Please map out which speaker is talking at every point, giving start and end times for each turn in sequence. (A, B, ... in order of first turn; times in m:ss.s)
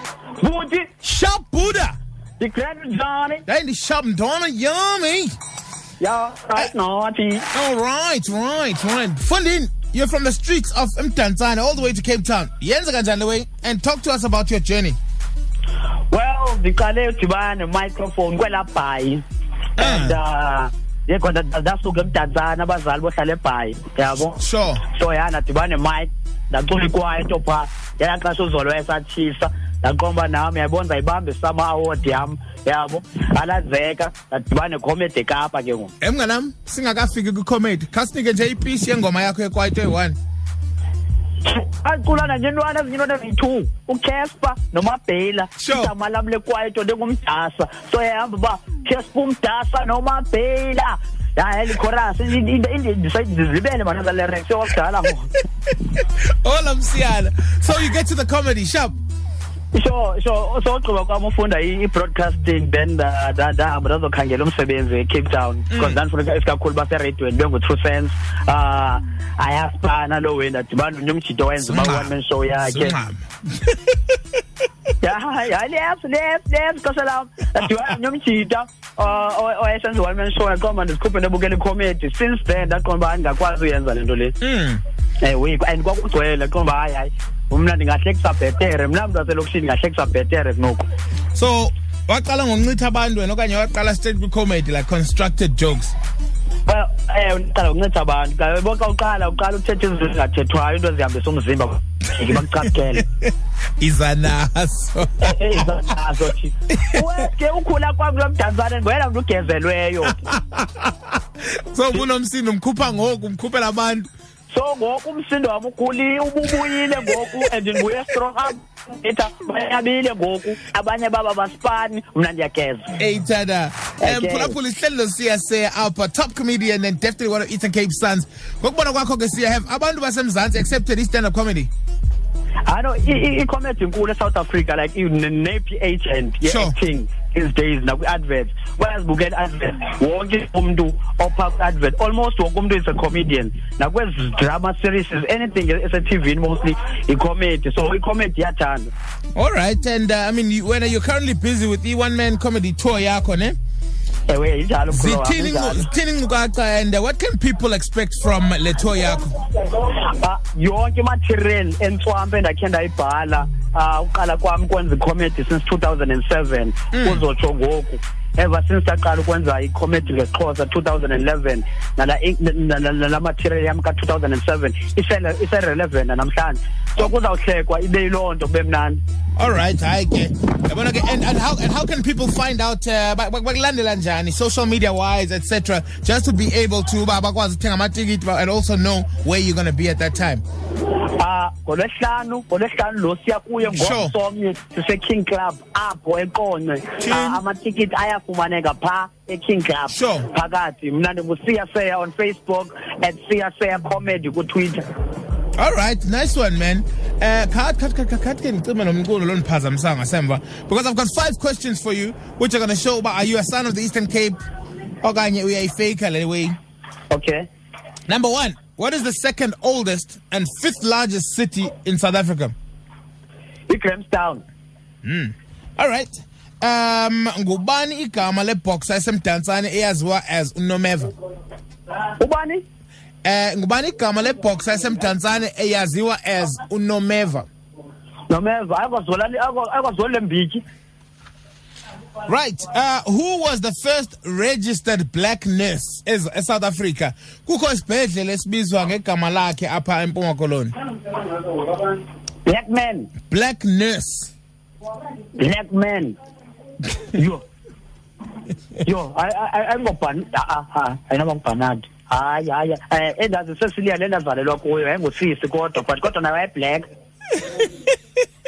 0:00.4-0:00.9 A
0:01.0-0:02.0 B
0:02.4-0:03.4 A
0:03.5-0:05.4 B
0:06.0-0:07.5 A
0:07.5-0:15.0 B
0:16.1-0:19.2 A
0:19.8-0:20.2 B
0:19.8-0:35.9 A
0:24.4-0:24.8 B
0:36.0-0:40.2 B
0:41.4-0:55.3 A
0:45.6-0:45.9 B
0:55.9-0:59.0 B
0:59.7-1:13.0 A
1:05.7-1:06.0 B
1:11.6-1:14.2 B
1:15.0-1:24.4 A
1:24.4-1:24.8 B
1:25.2-1:30.8 A
1:31.3-1:36.0 B
1:36.7-1:43.0 A
1:43.0-1:45.7 B
1:45.2-1:50.3 A
1:46.7-1:47.2 B
1:50.1-1:54.1 B
1:54.5-2:02.9 A
2:03.0-2:11.7 B
2:04.0-2:04.6 A
2:12.7-2:28.9 A
2:16.4-2:16.7 B
2:29.4-2:33.6 B
2:34.3-2:35.9 A
2:34.9-2:39.3 B
2:39.6-2:59.0 A
2:46.9-2:47.2 B
2:59.4-3:10.4 B
3:11.2-3:24.8 A
3:13.7-3:14.1 B
3:17.0-3:17.4 B
3:19.9-3:20.3 B
3:25.6-3:34.4 B
3:35.0-3:36.6 B
3:37.1-3:37.5 A
3:38.1-3:42.5 B
3:43.7-3:44.4 A
3:45.0-3:51.1 B
3:52.2-3:52.6 A
3:53.2-3:57.5 B
3:58.3-4:00.6 A
4:02.3-4:10.7 B
4:11.5-4:13.1 A
4:13.3-4:14.3 B
4:15.4-4:16.2 A
4:17.1-4:17.4 A
4:18.8-4:26.9 A
4:27.3-4:28.0 B